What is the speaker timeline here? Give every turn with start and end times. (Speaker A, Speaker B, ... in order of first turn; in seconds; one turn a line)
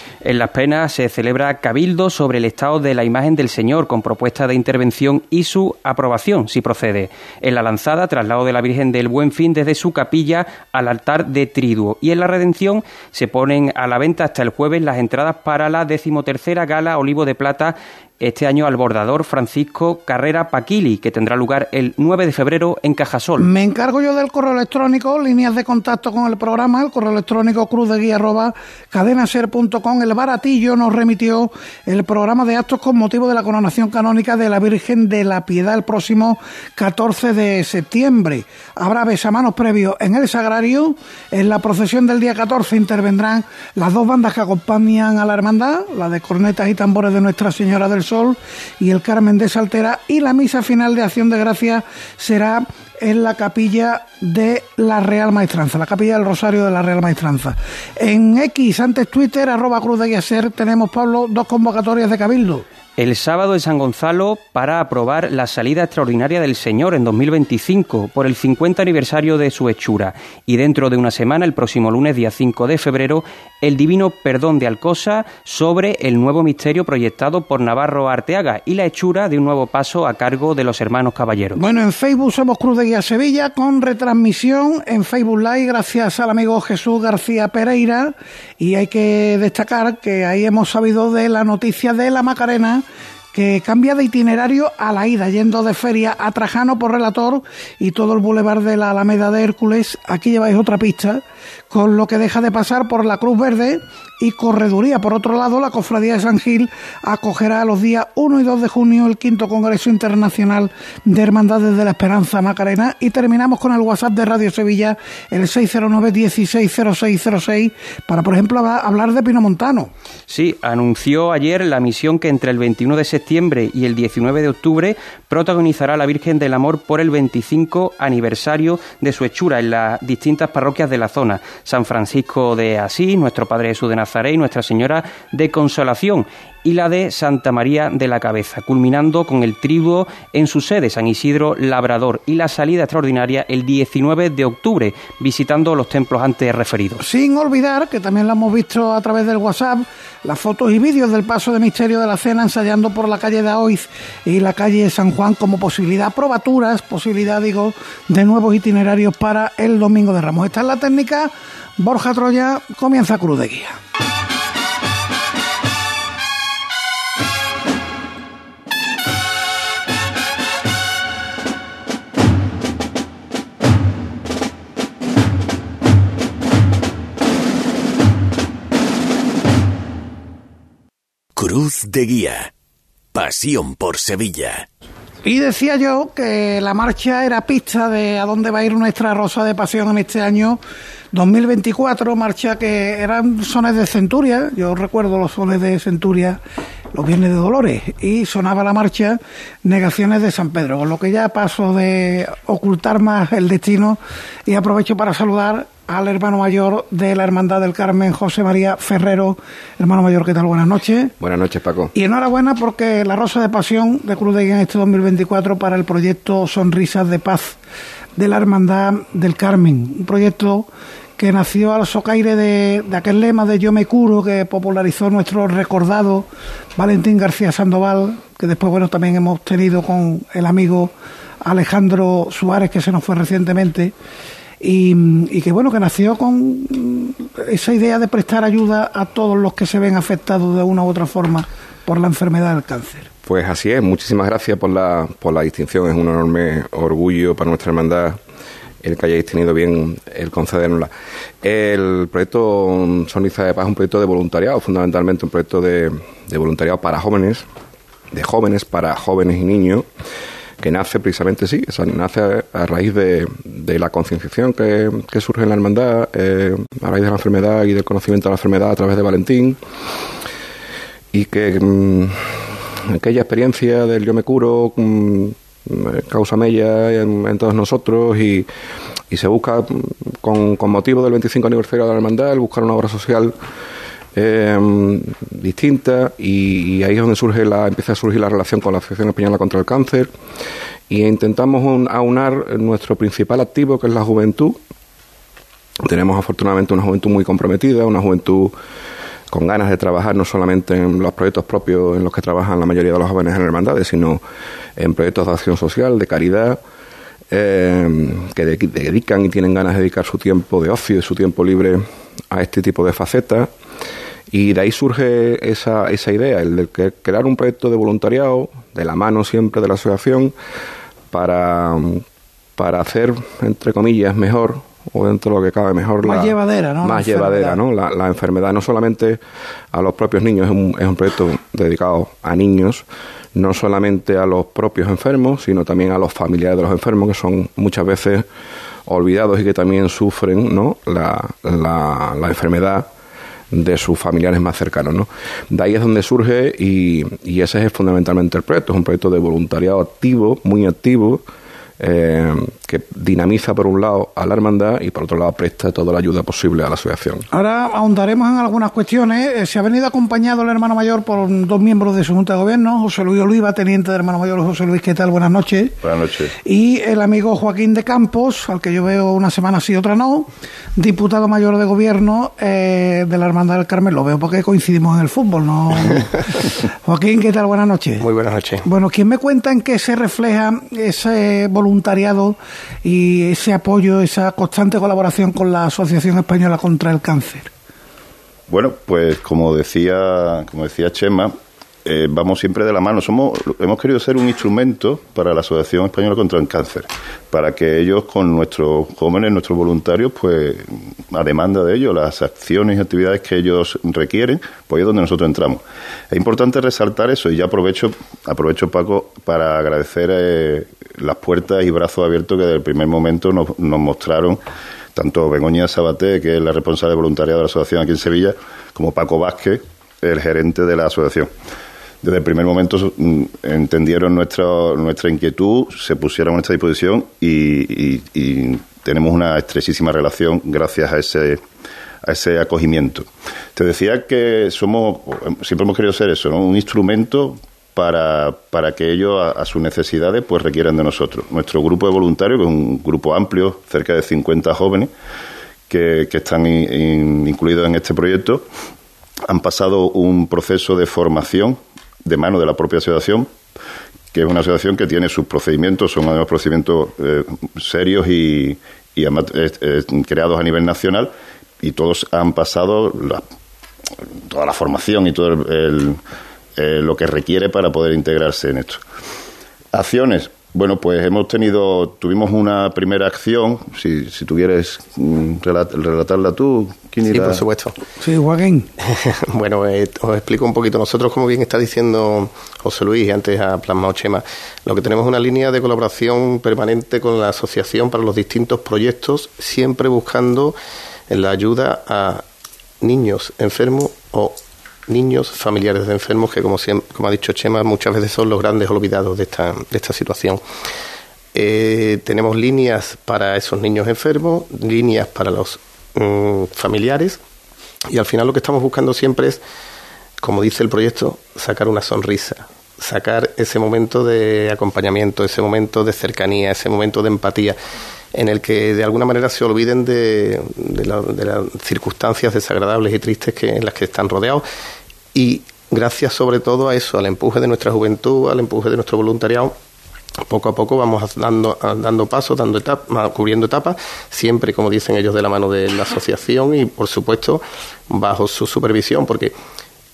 Speaker A: 0.2-23.5
Speaker B: 23.4-62.6
Speaker A: 63.0-81.6
Speaker B: 81.5-119.9
Speaker A: 120.3-147.0
Speaker B: 147.0-163.8
Speaker C: 181.3-182.5
Speaker C: 183.1-184.7
Speaker B: 185.2-190.6
Speaker B: 191.1-196.4
Speaker B: 196.9-211.1
Speaker D: 211.2-211.9
Speaker B: 211.9-217.6
Speaker B: 218.2-220.7
Speaker B: 221.2-233.9
Speaker B: 234.6-243.1
Speaker D: 243.2-248.2
Speaker D: 248.8-250.9
Speaker D: 251.4-257.4
Speaker D: 258.1-259.9
Speaker D: 260.6-269.6
Speaker D: 271.1-278.5
Speaker D: 279.1-283.3
Speaker D: 284.1-290.1
Speaker D: 290.9-294.6
Speaker D: 295.8-298.5
Speaker D: 299.3-304.2
Speaker D: 304.8-306.6
Speaker D: 307.3-313.5
Speaker D: 314.3-320.3
Speaker D: 321.1-322.0
Speaker D: 322.6-329.2
Speaker B: 326.0-327.6
Speaker D: 329.7-338.2
Speaker D: 338.9-342.9
Speaker D: 343.5-351.2
Speaker D: 351.8-357.2
Speaker B: 357.3-365.8
Speaker E: 365.8-366.3
Speaker B: 366.4-378.0
Speaker F: 378.0-378.6
Speaker B: 378.6-387.5
Speaker E: 388.5-391.3
Speaker E: 391.8-414.4
Speaker E: 414.9-421.3
Speaker E: 422.0-431.4
Speaker E: 432.0-444.9
Speaker E: 445.7-448.4
Speaker E: 449.2-453.3
Speaker E: 454.1-463.2
Speaker E: 464.3-466.0
Speaker E: 466.6-468.8
Speaker E: 469.7-477.4
Speaker F: 477.1-477.7
Speaker B: 478.0-478.7
Speaker F: 478.8-490.6
Speaker F: 491.1-492.2
Speaker F: 492.8-500.4
Speaker F: 501.3-507.2
Speaker F: 507.9-509.4
Speaker F: 510.2-517.6
Speaker F: 518.1-524.4
Speaker F: 525.1-529.5
Speaker F: 530.2-539.3